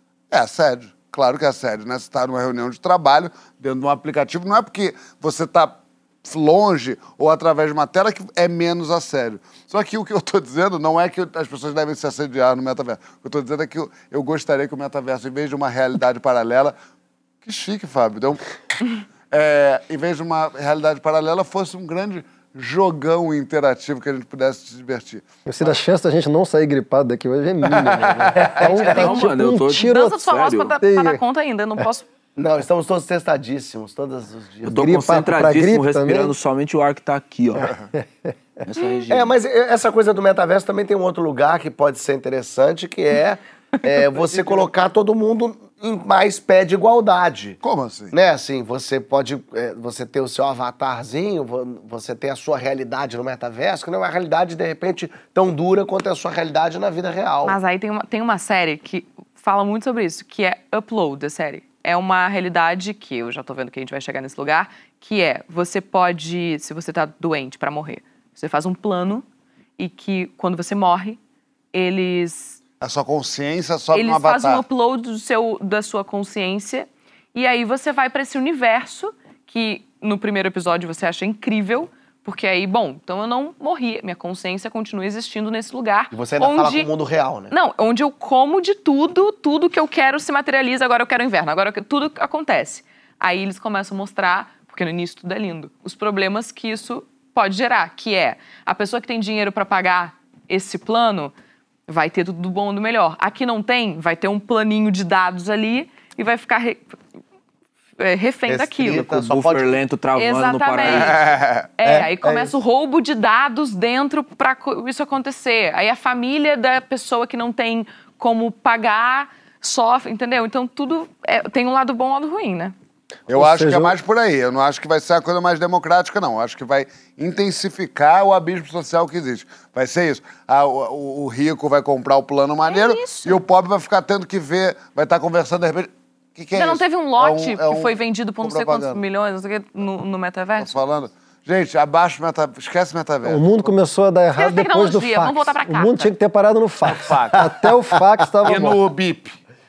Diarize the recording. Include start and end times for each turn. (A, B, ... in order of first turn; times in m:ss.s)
0:00.3-0:16.8 A
0:17.4-0:18.4 A
0:19.3-0:25.7 A
0:25.5-0:30.2 B
0:27.8-0:28.6 A
0:28.4-0:29.0 C
0:28.8-0:30.8 D
0:29.7-0:32.0 E
0:30.8-0:31.2 B
0:32.4-0:35.0 C
0:34.6-0:37.7 D
0:34.7-0:36.4 B
0:38.6-0:39.3 D
0:39.1-0:47.6 C
0:47.6-0:48.1 A
0:48.1-0:57.6 C
0:57.4-1:09.2 E
1:09.8-1:11.2 E
1:11.7-1:12.6 E
1:12.8-1:14.6 A
1:13.9-1:26.9 E
1:26.1-1:27.5 C
1:27.5-1:41.3 E
1:41.9-1:47.0 E
1:48.0-1:49.1 E
1:48.5-1:49.8 C
1:48.9-1:51.2 D
1:50.2-1:51.2 E
1:50.9-1:51.7 A
1:51.8-2:02.8 E
1:51.8-1:52.6 C
2:03.3-2:19.0 A
2:03.3-2:03.9 B
2:12.7-2:13.4 E
2:16.6-2:20.7 E
2:20.6-2:23.7 A
2:23.2-2:28.8 B
2:24.4-2:26.1 E
2:26.9-2:27.4 A
2:28.5-2:29.4 A